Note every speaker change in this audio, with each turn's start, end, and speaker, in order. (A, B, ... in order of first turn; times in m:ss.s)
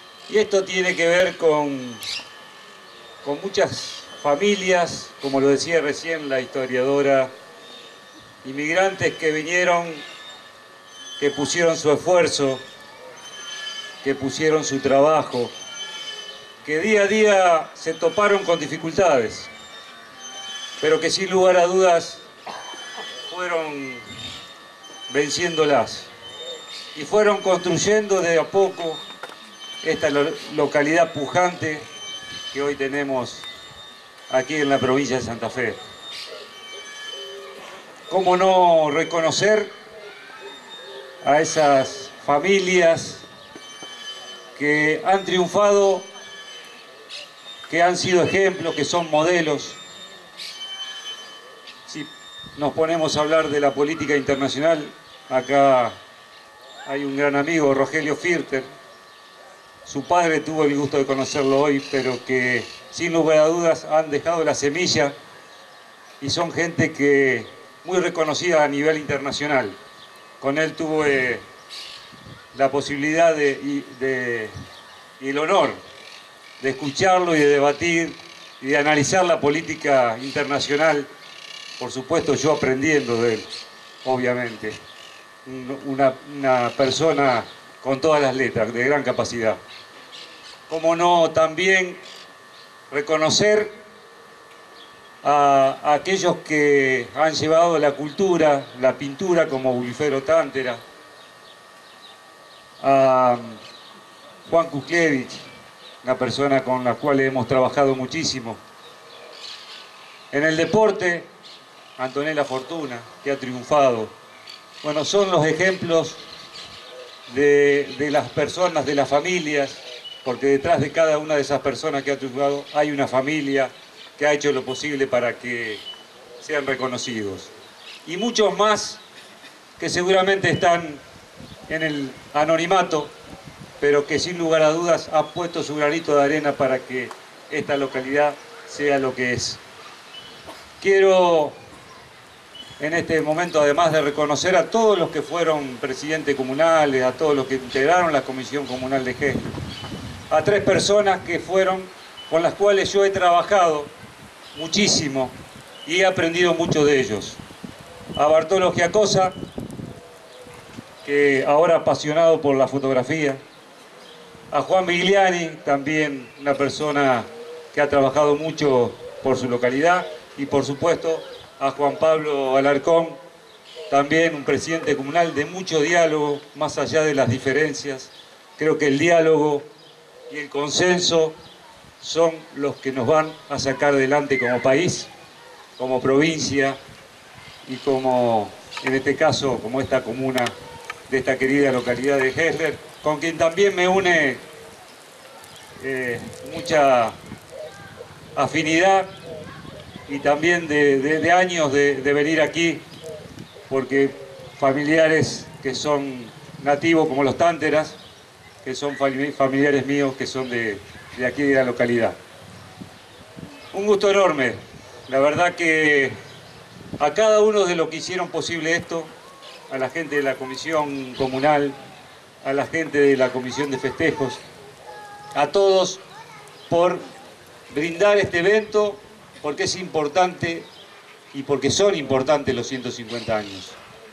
0:00.3-0:02.0 A
0:03.2-0:07.3 A
0:08.4-0:10.0 A
0:11.2-0:12.6 A
0:14.0-0:15.5 A
0:16.6-0:19.5 A
0:20.8-0:22.2 A
0:23.3-0:24.0 A
0:25.1-0:26.1 A
0:26.9-0:29.0 A
0:29.8-0:31.9 A
0:32.5-0:33.5 A
0:34.3-0:35.8 A
0:38.1-0:39.7 A
0:41.2-0:43.3 A
0:44.6-0:46.0 A
0:47.7-0:49.8 A
0:51.9-0:56.0 A
0:56.8-0:58.7 A
0:59.8-1:05.1 A
1:06.2-1:09.8 A
1:10.4-1:11.4 A
1:12.5-1:14.6 A
1:15.2-1:15.8 A
1:16.6-1:21.1 A
1:21.8-1:23.5 A
1:24.0-1:24.8 A
1:25.4-1:29.6 A
1:30.7-1:32.0 A
1:32.9-1:33.8 A
1:35.2-1:40.8 A
1:42.8-1:43.6 A
1:44.4-1:45.4 A
1:46.0-1:48.6 A
1:50.3-1:51.3 A
1:52.0-1:54.1 A
1:54.8-1:56.2 A
1:57.3-2:05.8 A
2:06.4-2:07.5 A
2:08.0-2:09.0 A
2:09.8-2:11.0 A
2:11.7-2:13.1 A
2:13.8-2:19.6 A
2:20.8-2:21.6 A
2:22.8-2:29.5 A
2:30.3-2:33.9 A
2:34.5-2:37.4 A
2:38.2-2:39.3 A
2:41.0-2:43.4 A
2:44.5-2:53.2 A
2:53.9-2:59.7 A
3:00.3-3:01.4 A
3:02.0-3:05.1 A
3:05.8-3:06.8 A
3:07.6-3:10.5 A
3:11.1-3:14.4 A
3:15.8-3:17.2 A
3:18.4-3:19.1 A
3:20.1-3:22.8 A
3:23.7-3:28.0 A
3:28.6-3:32.2 A
3:33.7-3:36.2 A
3:37.0-3:39.1 A
3:39.7-3:41.8 A
3:42.4-3:44.4 A
3:45.3-3:46.0 A
3:46.7-3:47.0 A
3:47.7-3:50.7 A
3:51.3-3:53.8 A